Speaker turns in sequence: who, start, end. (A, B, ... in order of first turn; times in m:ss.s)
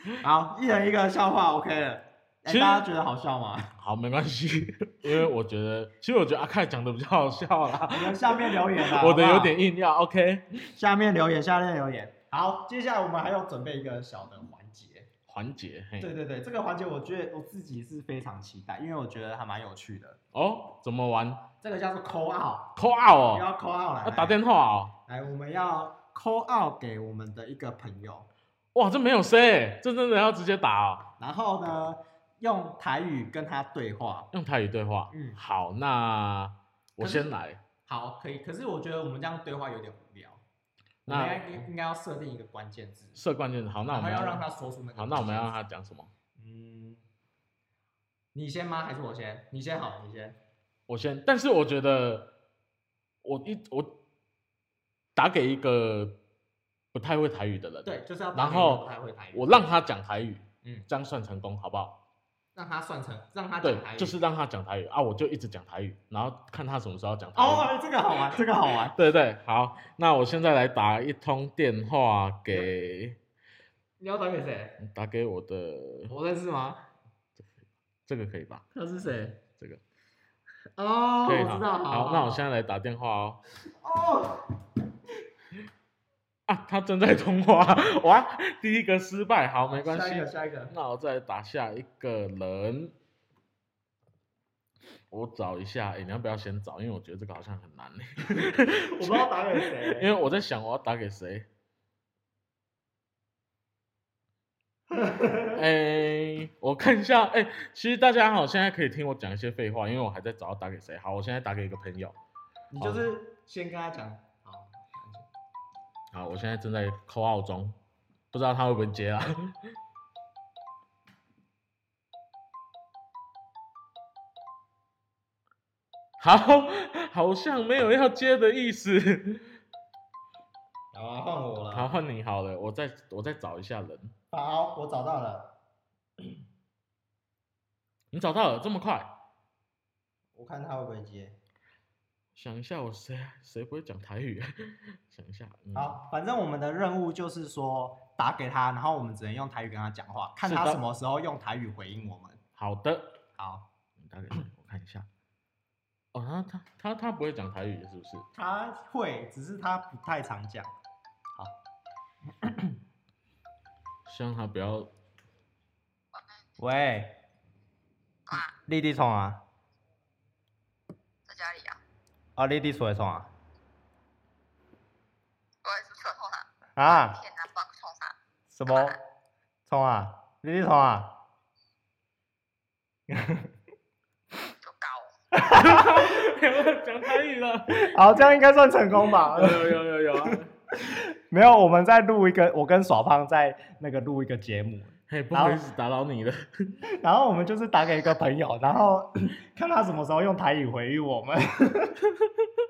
0:00.2-0:03.7 A
0:02.5-0:02.8 B
0:03.8-0:10.4 B
0:07.9-0:09.5 A
0:10.7-0:15.1 A
0:15.3-0:16.1 B
0:16.0-0:20.2 A
0:20.3-0:21.4 B
0:21.6-0:22.8 A
0:22.8-0:23.4 B
0:23.3-0:24.4 A
0:24.0-0:24.9 B
0:25.1-0:28.3 A
0:28.7-0:31.1 B
0:31.2-0:34.3 A
0:34.3-0:37.6 B
0:35.1-0:35.4 A
0:37.0-0:37.3 A
0:37.8-0:40.4 A
0:41.0-0:41.6 B
0:41.1-0:43.2 A
0:43.1-0:44.4 B
0:43.9-0:45.6 A
0:45.0-0:46.1 B
0:46.4-0:47.0 A
0:48.3-0:50.4 A
0:50.9-0:52.3 B
0:53.2-0:54.0 B
0:55.2-0:56.2 B
0:56.9-1:02.0 B
0:57.8-0:59.6 A
1:02.5-1:04.2 A
1:03.6-1:07.7 B
1:07.4-1:09.0 A
1:08.9-1:13.2 B
1:14.0-1:14.8 A
1:14.8-1:16.1 B
1:16.1-1:16.8 A
1:18.0-1:18.6 B
1:18.7-1:19.4 A
1:20.8-1:22.4 A
1:21.2-1:23.4 B
1:23.8-1:24.4 A
1:26.5-1:32.9 B
1:29.7-1:30.7 A
1:35.1-1:41.5 B
1:38.5-1:40.1 A
1:44.9-1:45.6 A
1:45.5-1:52.1 B
1:52.7-1:55.3 A
1:52.8-1:53.1 B
1:56.1-1:57.7 B
1:58.3-1:59.6 B
2:06.2-2:09.6 B
2:10.9-2:11.9 A
2:11.7-2:14.1 B
2:14.3-2:15.5 A
2:18.1-2:19.2 B
2:20.3-2:21.4 A
2:22.3-2:26.0 B
2:25.7-2:32.4 A
2:30.4-2:30.8 B
2:32.6-2:33.2 B
2:33.4-2:33.7 A
2:34.0-2:35.1 B
2:36.1-2:38.2 B
2:38.3-2:40.7 A
2:42.4-2:42.8 A
2:44.0-2:44.9 B
2:46.6-2:47.2 A
2:48.3-2:48.5 C
2:48.6-2:49.4 A
2:51.2-2:51.8 C
2:52.4-2:53.3 A
2:55.6-2:56.5 C
2:56.8-2:57.2 A
2:57.0-2:58.2 C
2:58.5-2:59.0 A
2:58.7-2:59.0 C
2:59.7-3:01.1 A
3:03.1-3:03.5 A
3:04.6-3:05.1 C
3:05.3-3:06.3 A
3:05.5-3:08.0 B
3:07.8-3:09.7 A
3:09.2-3:10.5 B
3:10.8-3:15.6 A
3:15.1-3:16.8 B
3:17.0-3:22.0 A